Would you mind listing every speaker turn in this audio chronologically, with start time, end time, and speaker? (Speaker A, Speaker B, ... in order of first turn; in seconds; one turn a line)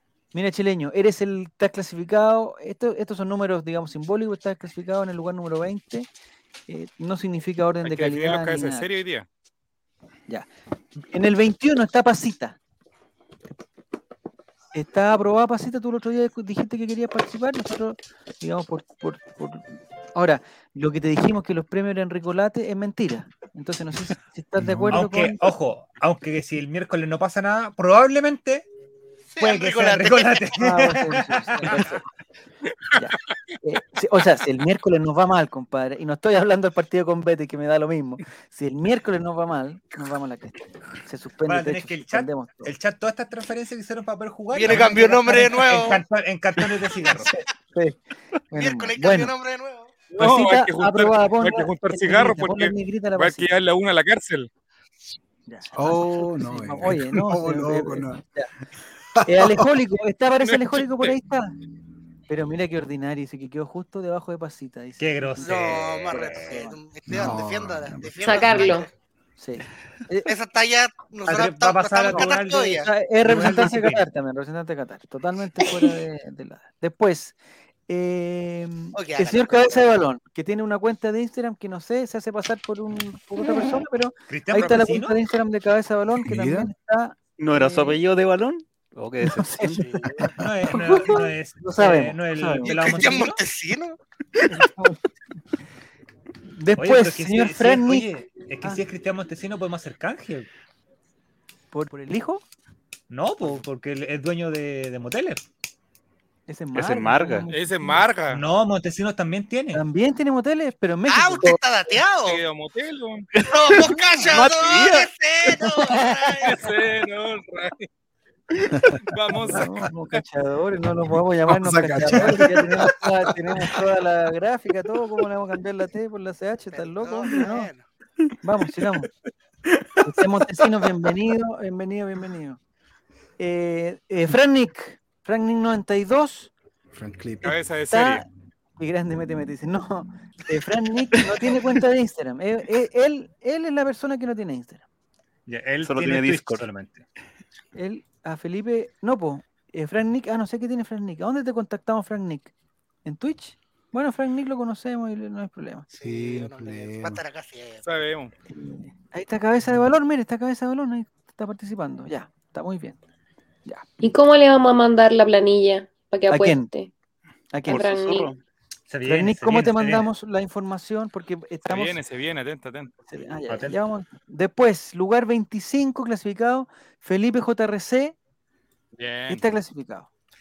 Speaker A: 0.3-6.1
Speaker A: 6.7-8.9
Speaker B: 7.8-9.3
Speaker A: 11.0-12.6
Speaker A: 14.7-25.5
Speaker C: 24.6-25.1
Speaker D: 24.9-28.7
Speaker E: 29.3-30.6
Speaker D: 29.4-31.9
Speaker A: 30.6-32.0
Speaker E: 31.7-32.0
Speaker A: 32.9-42.7
Speaker D: 41.5-47.3
Speaker E: 44.5-46.0
Speaker A: 47.7-48.0
Speaker A: 48.5-49.3
Speaker E: 48.5-50.0
Speaker B: 50.1-54.5
Speaker A: 50.1-53.5
Speaker A: 55.5-58.5
Speaker C: 55.7-58.2
Speaker C: 59.1-59.7
Speaker A: 59.2-61.5
Speaker B: 60.4-61.2
Speaker A: 62.3-65.5
Speaker D: 65.0-66.6
Speaker E: 65.4-68.9
Speaker A: 66.1-66.8
Speaker C: 67.1-68.7
Speaker F: 68.2-68.9
Speaker A: 69.4-70.3
Speaker E: 70.3-72.9
Speaker D: 71.3-74.1
Speaker A: 72.1-77.3
Speaker A: 77.9-88.0
Speaker E: 78.9-79.9
Speaker D: 84.3-85.2
Speaker C: 86.2-86.7
Speaker G: 87.4-90.1
Speaker A: 89.2-93.2
Speaker E: 89.8-90.3
Speaker D: 90.4-93.4
Speaker E: 92.7-94.0
Speaker A: 94.5-95.0
Speaker A: 96.5-98.1
Speaker D: 96.8-100.5
Speaker A: 101.7-102.5
Speaker D: 103.1-105.4
Speaker A: 106.5-108.1
Speaker G: 106.7-107.5
Speaker B: 107.5-108.4
Speaker D: 108.3-109.8
Speaker A: 109.7-111.6
Speaker E: 111.1-112.4
Speaker B: 112.2-113.3
Speaker G: 113.4-115.1
Speaker E: 113.5-116.6
Speaker A: 113.9-114.5
Speaker B: 116.4-117.9
Speaker B: 119.0-120.2
Speaker A: 119.5-127.7
Speaker C: 121.5-123.0
Speaker E: 126.7-127.9
Speaker A: 128.4-129.1
Speaker A: 130.0-132.6
Speaker A: 133.4-136.5
Speaker C: 136.9-137.6
Speaker B: 137.4-138.2
Speaker A: 137.9-138.3
Speaker A: 138.8-144.8
Speaker D: 145.5-147.1
Speaker G: 145.8-146.7
Speaker A: 147.8-152.5
Speaker A: 153.1-155.9
Speaker E: 155.9-157.8
Speaker C: 156.0-157.2
Speaker B: 157.8-158.3
Speaker A: 158.5-163.0
Speaker F: 164.0-166.9
Speaker A: 166.3-166.7
Speaker A: 167.5-168.0
Speaker F: 167.7-168.3
Speaker G: 167.7-168.4
Speaker D: 168.9-170.1
Speaker A: 169.1-172.0
Speaker B: 171.7-173.0
Speaker A: 173.1-178.2
Speaker D: 173.5-173.8
Speaker B: 178.9-179.4
Speaker A: 179.3-180.1